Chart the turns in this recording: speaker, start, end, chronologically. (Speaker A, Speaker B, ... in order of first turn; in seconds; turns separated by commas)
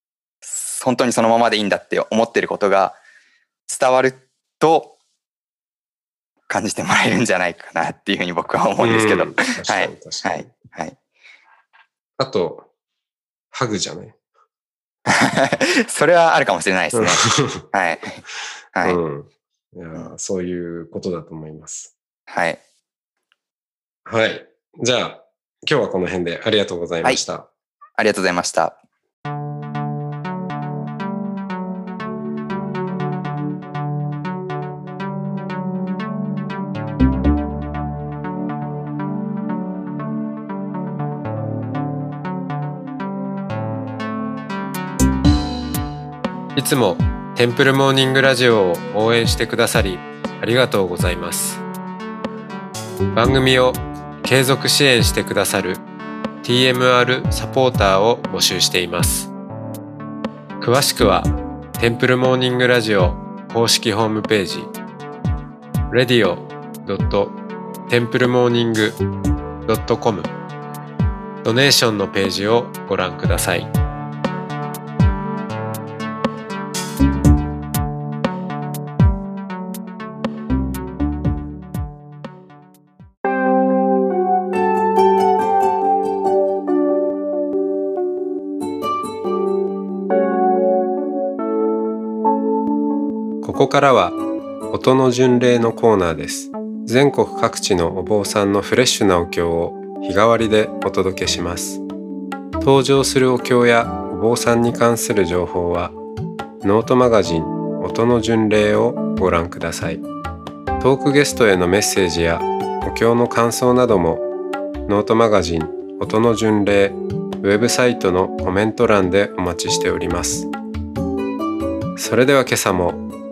Speaker A: 0.4-3.0, Speaker A: 3.7-5.0, Speaker A: 6.5-11.0, Speaker B: 8.8-10.5, Speaker B: 12.2-12.7, Speaker B: 13.5-14.2, Speaker A: 15.1-18.2, Speaker B: 16.9-17.6, Speaker B: 18.8-21.9, Speaker A: 22.3-22.6, Speaker B: 24.0-27.5, Speaker A: 28.0-28.8, Speaker B: 46.5-51.6, Speaker B: 53.1-55.8, Speaker B: 56.4-59.3, Speaker B: 60.6-64.7, Speaker B: 65.9-69.0, Speaker B: 69.7-70.3, Speaker B: 71.4-73.7, Speaker B: 93.4-94.2, Speaker B: 94.7-101.8, Speaker B: 102.6-106.0, Speaker B: 106.6-110.0, Speaker B: 110.8-114.3, Speaker B: 114.9-120.5, Speaker B: 122.0-123.0